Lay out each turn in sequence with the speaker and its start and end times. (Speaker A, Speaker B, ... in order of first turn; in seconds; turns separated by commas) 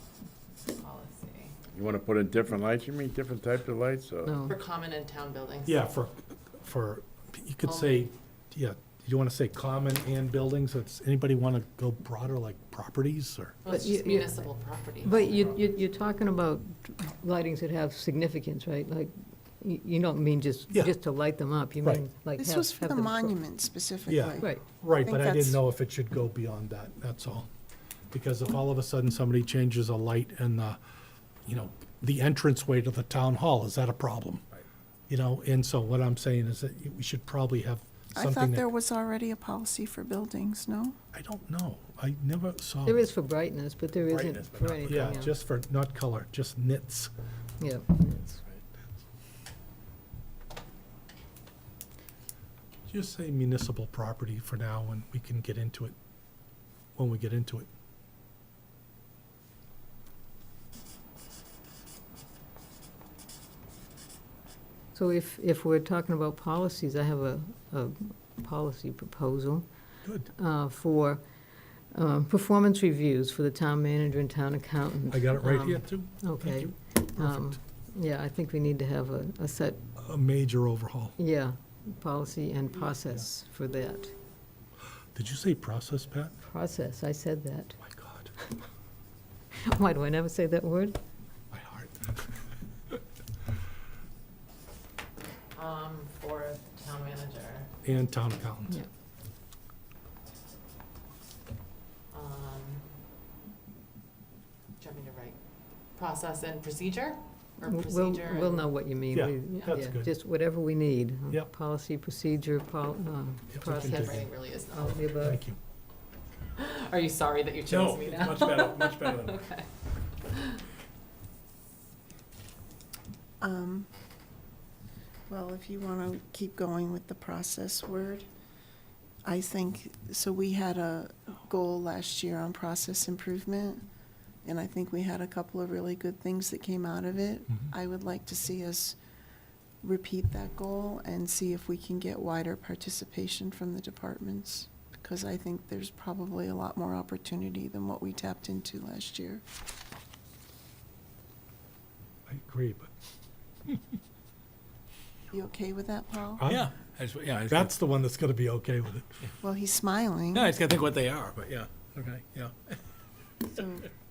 Speaker A: 0.8-1.6, Speaker B: 1.7-4.3, Speaker C: 4.2-4.6, Speaker A: 4.5-5.8, Speaker D: 5.6-13.6, Speaker A: 7.6-8.1, Speaker C: 13.6-14.5, Speaker A: 13.6-15.6, Speaker C: 15.0-23.4, Speaker E: 22.4-25.6, Speaker D: 24.1-27.5, Speaker C: 24.4-24.7, Speaker D: 28.1-30.8, Speaker D: 31.4-34.4, Speaker D: 35.1-38.7, Speaker E: 38.1-41.0, Speaker D: 41.1-43.1, Speaker C: 42.9-45.3, Speaker F: 44.0-45.2, Speaker D: 44.8-47.1, Speaker C: 47.6-48.4, Speaker D: 52.9-56.0, Speaker D: 57.0-57.7, Speaker C: 64.9-69.7, Speaker D: 70.0-70.3, Speaker C: 70.3-71.3, Speaker C: 71.9-79.8, Speaker D: 75.1-77.5, Speaker D: 80.0-81.2, Speaker C: 81.2-84.1, Speaker D: 85.1-86.3, Speaker C: 86.4-87.8, Speaker D: 87.8-88.3, Speaker C: 89.7-91.0, Speaker D: 91.5-92.2, Speaker A: 95.5-97.7, Speaker D: 97.8-98.8, Speaker A: 102.1-102.8, Speaker A: 104.8-105.3, Speaker A: 105.9-108.7, Speaker C: 107.6-115.4, Speaker D: 109.1-110.1, Speaker D: 113.5-114.3, Speaker A: 113.7-115.0, Speaker D: 115.2-115.6, Speaker A: 116.6-119.7, Speaker F: 117.7-119.4, Speaker A: 120.3-120.6, Speaker E: 123.4-123.9, Speaker E: 125.3-128.3, Speaker E: 129.2-133.8, Speaker E: 134.4-138.9, Speaker E: 139.8-149.4, Speaker D: 152.3-152.9, Speaker E: 155.3-156.5, Speaker D: 156.4-156.7, Speaker F: 156.4-157.7, Speaker D: 157.5-159.2, Speaker E: 159.4-160.5, Speaker F: 160.3-162.5, Speaker E: 163.5-163.8